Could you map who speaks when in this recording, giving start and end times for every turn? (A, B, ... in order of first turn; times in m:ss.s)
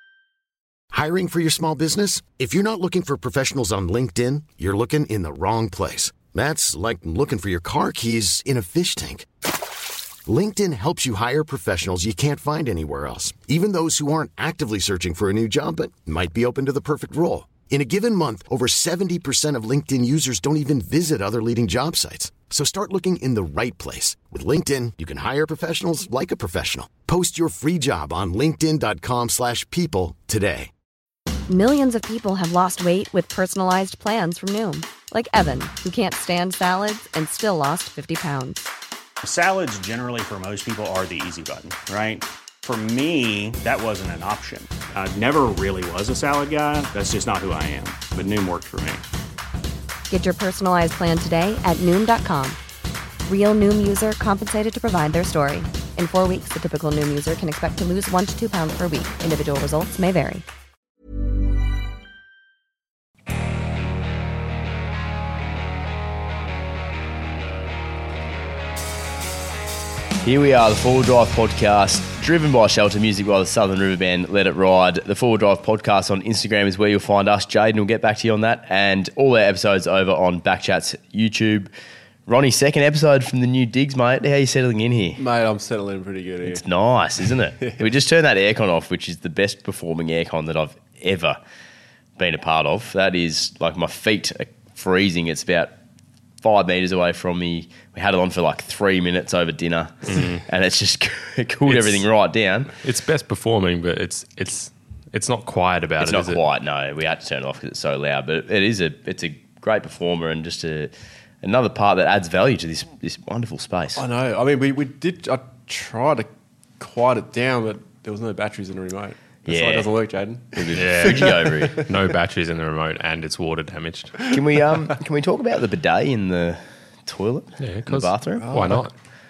0:00.9-0:09.3 A
0:10.3-0:30.7 A
0:31.5-0:38.7 B
0:39.2-0:49.0 C
0:50.1-0:52.6 B
0:53.2-1:00.4 B
1:10.2-1:21.7 D
1:22.3-1:25.2 D
1:25.2-1:26.6 E
1:26.4-1:31.4 D
1:32.2-1:35.8 D
1:36.4-1:42.7 D
1:40.1-1:40.4 F
1:41.7-1:42.0 F
1:42.8-1:46.4 F
1:46.0-1:54.0 D
1:54.0-1:56.3 E
1:56.8-2:01.9 E
1:59.4-1:59.9 D
2:00.5-2:01.8 D
2:00.8-2:04.3 F
2:04.3-2:08.5 D
2:07.6-2:08.9 F
2:08.4-2:08.8 E